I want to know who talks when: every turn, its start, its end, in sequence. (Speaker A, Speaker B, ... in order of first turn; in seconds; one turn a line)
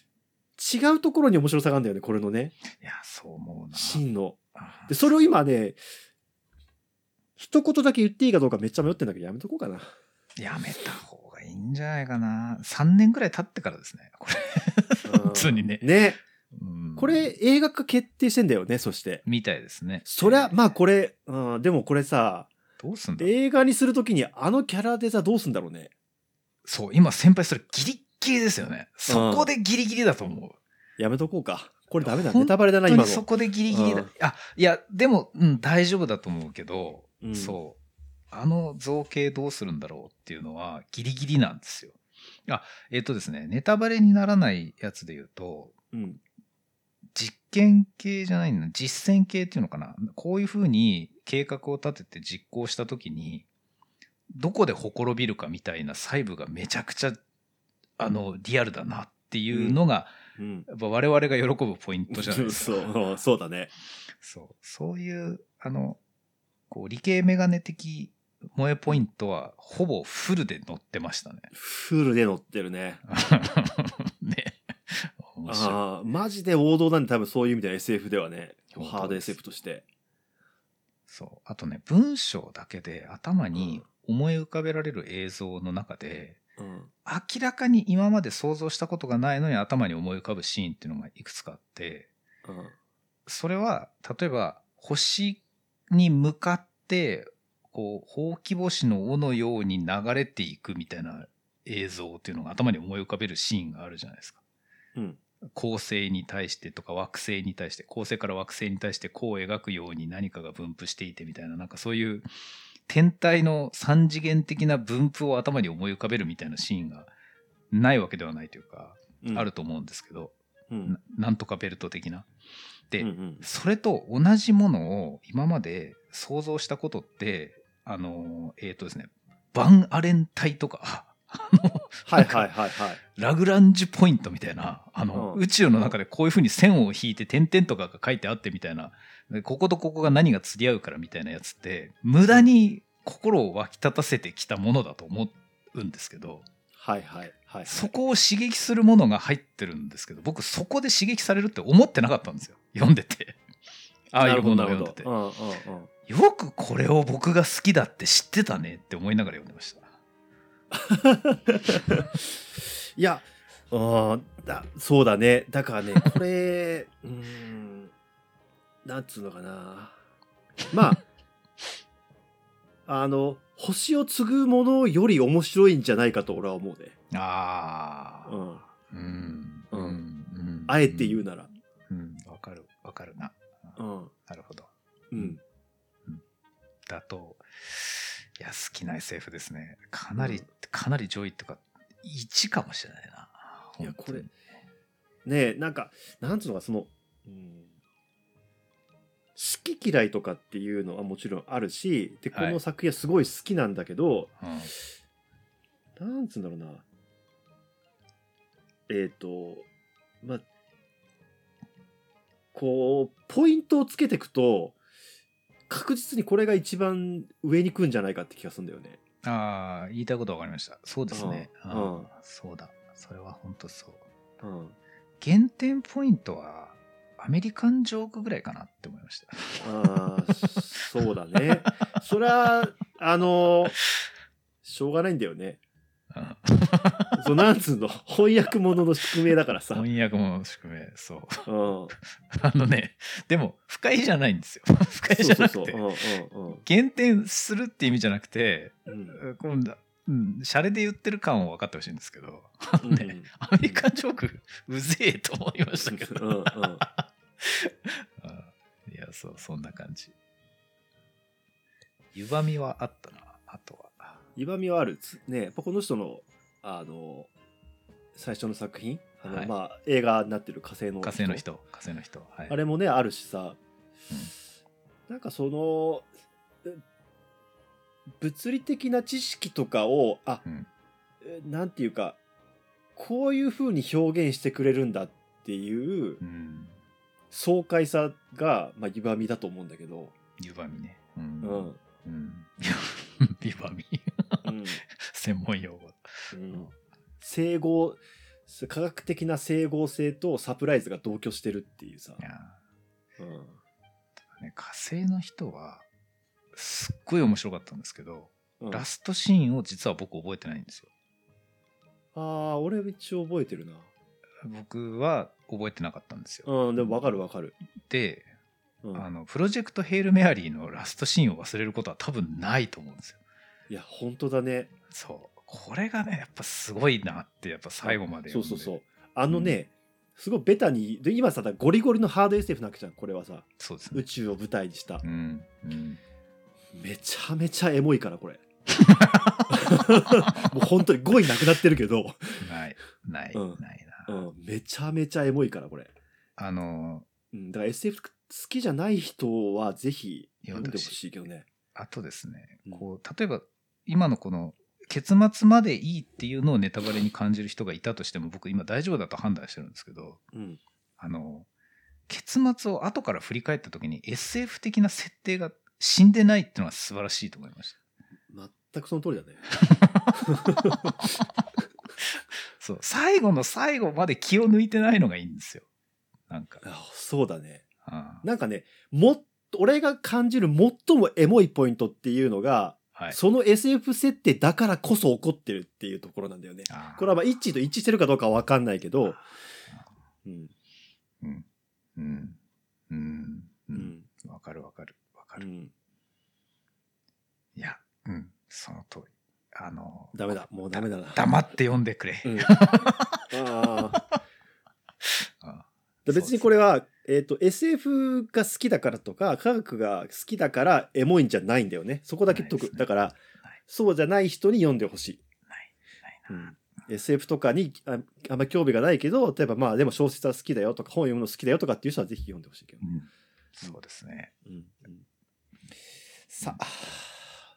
Speaker A: 0.6-2.5
Speaker B: 2.7-4.0
Speaker A: 3.7-5.8
Speaker B: 4.6-4.9
Speaker A: 7.4-9.9
Speaker B: 10.4-15.9
Speaker A: 15.0-16.2
Speaker B: 16.5-17.3
Speaker A: 17.0-19.2
Speaker B: 19.2-20.6
Speaker A: 20.1-22.5
Speaker B: 22.8-23.3
Speaker A: 23.2-25.9
Speaker B: 26.6-30.6
Speaker A: 29.1-29.5
Speaker A: 31.0-34.1
Speaker B: 32.0-37.8
Speaker A: 37.2-37.6
Speaker B: 38.3-45.8
Speaker A: 45.9-46.2
Speaker B: 47.1-53.5
Speaker B: 54.4-57.2
Speaker B: 58.0-60.1
Speaker A: 59.5-59.8
Speaker A: 60.4-60.7
Speaker B: 60.7-62.9
Speaker A: 62.1-63.7
Speaker B: 64.2-66.0
Speaker B: 66.7-71.5
Speaker A: 71.5-73.0
Speaker B: 73.1-75.8
Speaker A: 75.5-79.8
Speaker B: 78.7-79.4
Speaker B: 81.1-86.4
Speaker A: 83.6-83.8
Speaker A: 86.6-86.9
Speaker B: 87.0-92.1
Speaker A: 92.5-92.8
Speaker B: 93.3-104.4
Speaker B: 105.5-112.3
Speaker B: 112.9-117.1
Speaker B: 117.7-122.3
Speaker A: 119.2-119.5
Speaker A: 120.7-121.0
Speaker B: 122.9-132.5
Speaker A: 123.0-123.4
Speaker A: 132.1-133.0
Speaker B: 133.1-146.5
Speaker A: 135.1-135.9
Speaker A: 146.8-147.9
Speaker B: 147.7-153.4
Speaker B: 154.1-155.1
Speaker A: 154.2-155.9
Speaker B: 156.1-159.9
Speaker A: 160.7-162.3
Speaker A: 163.0-167.9
Speaker A: 168.8-170.0
Speaker A: 170.7-171.0
Speaker A: 172.9-176.9
Speaker B: 177.1-181.2
Speaker A: 178.3-178.6
Speaker A: 179.7-180.0
Speaker A: 180.7-181.5
Speaker B: 181.9-183.4
Speaker A: 183.8-184.1
Speaker B: 184.3-185.3
Speaker A: 185.1-185.4
Speaker B: 186.9-194.3
Speaker A: 190.2-190.5
Speaker A: 193.8-194.3
Speaker A: 195.3-197.7
Speaker A: 199.4-204.3
Speaker B: 202.3-202.6
Speaker B: 204.4-204.7
Speaker A: 206.0-206.8
Speaker A: 208.9-209.7
Speaker A: 212.5-214.8
Speaker A: 215.7-219.0
Speaker B: 219.2-224.0
Speaker A: 221.1-222.1
Speaker A: 224.4-224.8
Speaker B: 225.2-230.6
Speaker A: 229.6-233.8
Speaker A: 234.6-235.6
Speaker B: 236.1-237.3
Speaker A: 237.1-239.9
Speaker B: 239.7-245.9
Speaker A: 241.5-241.9
Speaker A: 245.1-246.6
Speaker B: 246.6-260.1
Speaker A: 248.9-249.2
Speaker A: 252.8-253.8
Speaker A: 255.8-256.9
Speaker B: 262.1-264.2
Speaker A: 264.4-267.3
Speaker A: 268.1-271.4
Speaker B: 271.0-272.6
Speaker A: 272.5-273.6
Speaker A: 275.1-276.1
Speaker A: 278.2-280.4
Speaker A: 281.2-282.2
Speaker A: 283.0-286.2
Speaker B: 286.2-286.8
Speaker A: 287.3-290.1
Speaker B: 290.4-296.7
Speaker A: 291.4-291.8
Speaker A: 294.4-294.8
Speaker A: 296.3-296.7
Speaker A: 297.2-302.2
Speaker B: 302.2-302.6
Speaker A: 303.2-303.6
Speaker B: 304.3-305.9
Speaker B: 306.5-310.9
Speaker A: 308.6-308.9
Speaker A: 312.1-313.9
Speaker B: 314.4-317.2
Speaker A: 316.4-317.6
Speaker B: 317.8-318.3
Speaker B: 318.9-323.2
Speaker A: 323.7-324.7
Speaker B: 324.9-328.7
Speaker A: 327.8-335.0
Speaker B: 329.3-329.6
Speaker B: 333.6-334.1
Speaker B: 335.0-336.0
Speaker A: 336.8-338.4
Speaker B: 338.7-340.6
Speaker A: 339.5-342.4
Speaker B: 342.4-344.2
Speaker A: 343.3-345.9
Speaker B: 346.4-347.1
Speaker A: 347.3-351.5
Speaker B: 350.4-351.0
Speaker B: 351.8-360.2
Speaker A: 360.3-360.6
Speaker B: 361.0-361.5
Speaker B: 362.1-367.8
Speaker A: 368.3-369.4
Speaker B: 369.5-370.9
Speaker A: 370.1-371.2
Speaker B: 372.0-375.7
Speaker B: 376.3-376.6
Speaker A: 376.6-377.6
Speaker B: 377.9-378.2
Speaker A: 378.2-389.2
Speaker B: 386.7-387.1
Speaker A: 390.2-390.5
Speaker B: 391.2-392.4
Speaker B: 392.9-395.4
Speaker A: 393.8-394.1
Speaker A: 395.4-395.7
Speaker B: 397.6-404.2
Speaker A: 400.1-401.2
Speaker A: 402.2-402.6
Speaker A: 403.3-404.0
Speaker B: 405.0-406.5
Speaker A: 406.1-415.2
Speaker B: 412.3-412.9
Speaker B: 415.5-416.5
Speaker A: 416.3-422.9
Speaker B: 422.8-424.3
Speaker A: 424.4-425.1
Speaker A: 426.3-427.3